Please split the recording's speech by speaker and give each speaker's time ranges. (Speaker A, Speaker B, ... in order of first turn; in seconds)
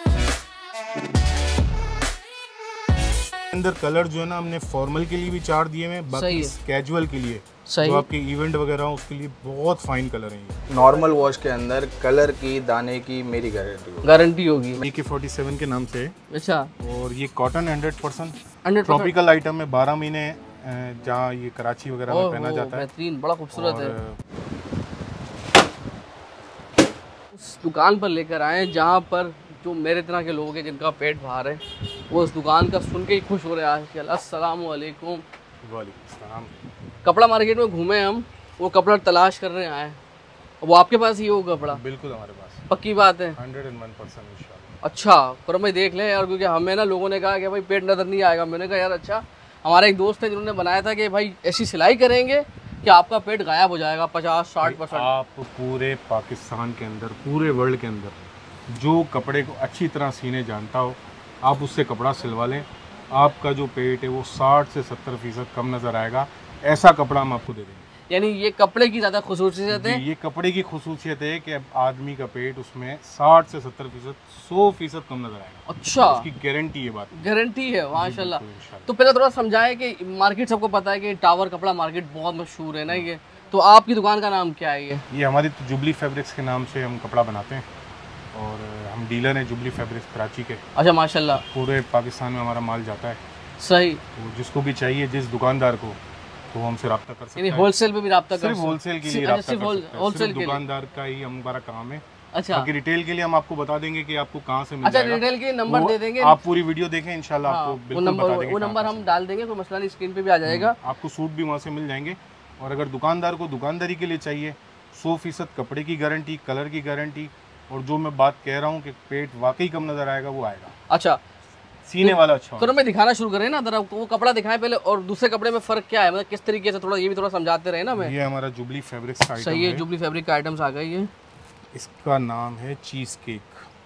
Speaker A: 3.5-10.6, 14.8-16.1, 16.8-22.9, 23.5-24.2, 35.6-36.6, 41.7-42.6, 43.4-44.8, 54.6-67.8, 69.7-77.3, 77.9-78.9, 85.1-87.7, 88.3-90.6, 91.3-93.2, 94.2-96.0, 96.5-97.7, 98.3-109.1, 110.4-120.7, 121.8-122.8, 128.0-129.8, 131.7-133.6
Speaker B: 6.1-6.5, 7.7-8.1, 14.0-14.8, 16.3-16.7, 18.6-19.1, 22.1-24.0, 27.3-35.2, 37.0-40.0, 40.6-41.8, 42.7-43.4, 44.8-55.1, 68.1-70.0, 75.7-76.3, 77.1-85.0, 90.8-91.4, 93.6-94.0, 97.4-100.6, 102.3-102.7, 104.8-106.4, 107.4-110.8, 120.9-121.2, 122.0-128.1, 129.4-131.1
Speaker C: 10.7-14.1